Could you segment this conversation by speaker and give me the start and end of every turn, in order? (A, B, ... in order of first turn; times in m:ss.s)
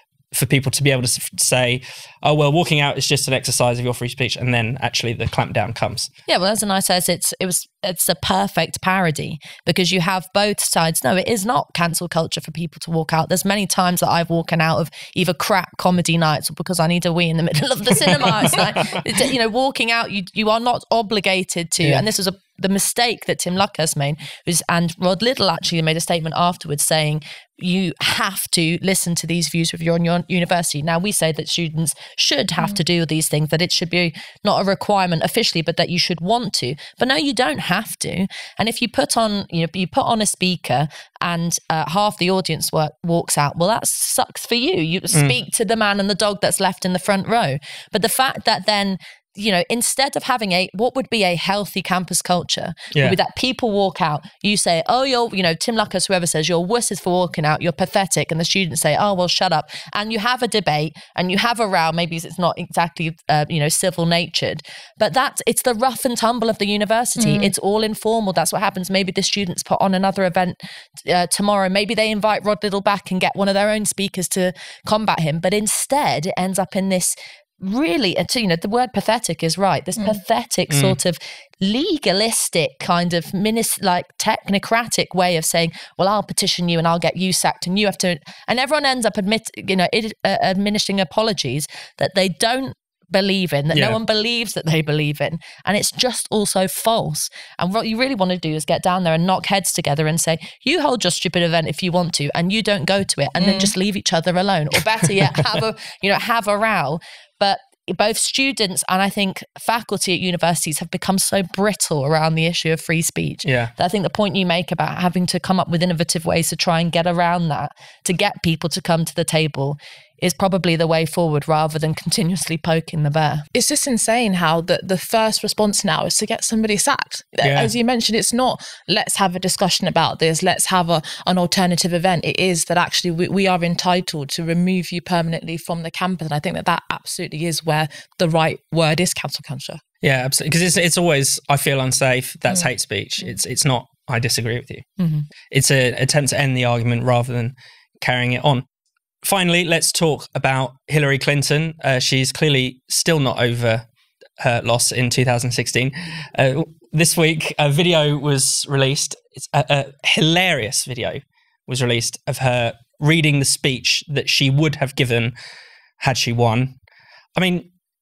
0:00.3-0:06.1 A
0:06.3-2:03.4 B
1:07.2-1:07.5 C
1:20.7-1:21.0 A
1:33.7-1:34.0 A
1:43.4-1:43.7 C
1:53.4-1:53.7 A
2:03.5-2:19.8 C
2:07.4-2:07.7 A
2:20.0-2:24.9 A
2:25.5-2:28.6 A
2:29.2-2:33.8 A
2:34.4-2:45.3 A
2:46.0-2:46.8 A
2:47.4-2:47.7 A